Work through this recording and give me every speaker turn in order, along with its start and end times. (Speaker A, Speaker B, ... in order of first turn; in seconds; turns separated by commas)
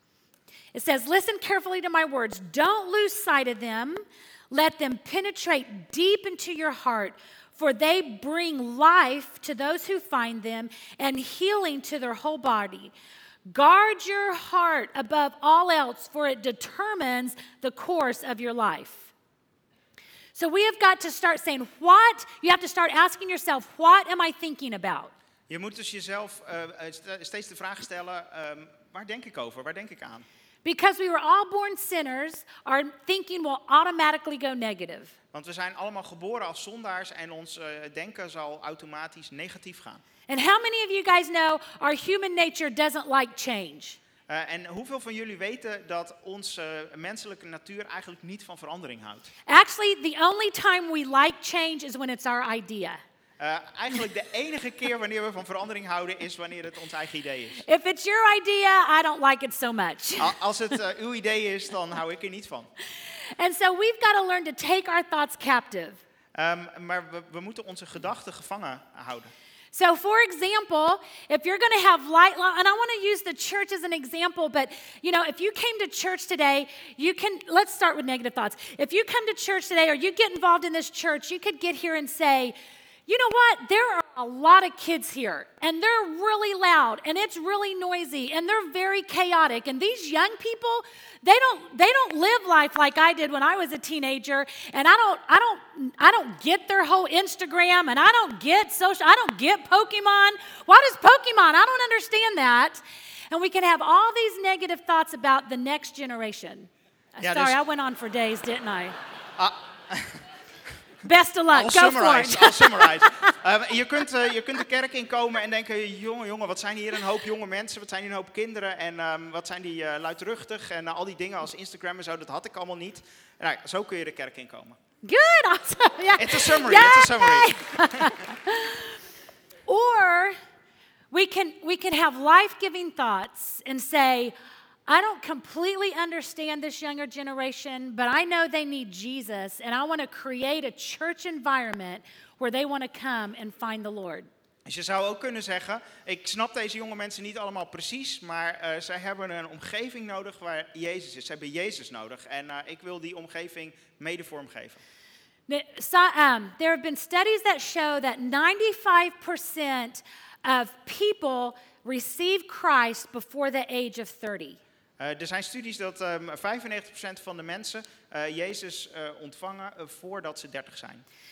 Speaker A: 0.7-12.9, Speaker A: 13.5-19.1, Speaker A: 20.4-25.1, Speaker B: 25.5-30.3, Speaker A: 30.6-35.1, Speaker B: 35.3-40.0, Speaker A: 40.3-44.0, Speaker B: 44.3-49.3, Speaker A: 49.5-53.0, Speaker B: 53.4-57.6, Speaker A: 57.6-60.4, Speaker B: 60.2-62.7, Speaker A: 63.4-66.0, Speaker B: 66.3-69.3, Speaker A: 69.7-82.5, Speaker A: 83.1-109.0, Speaker B: 107.2-107.6, Speaker B: 109.4-110.2, Speaker A: 111.0-113.0, Speaker B: 111.5-124.8, Speaker A: 125.0-128.9, Speaker B: 126.2-128.1, Speaker A: 129.7-130.4, Speaker A: 131.1-134.3, Speaker A: 134.9-144.3, Speaker B: 144.7-154.8, Speaker A: 155.5-164.6, Speaker B: 165.0-171.1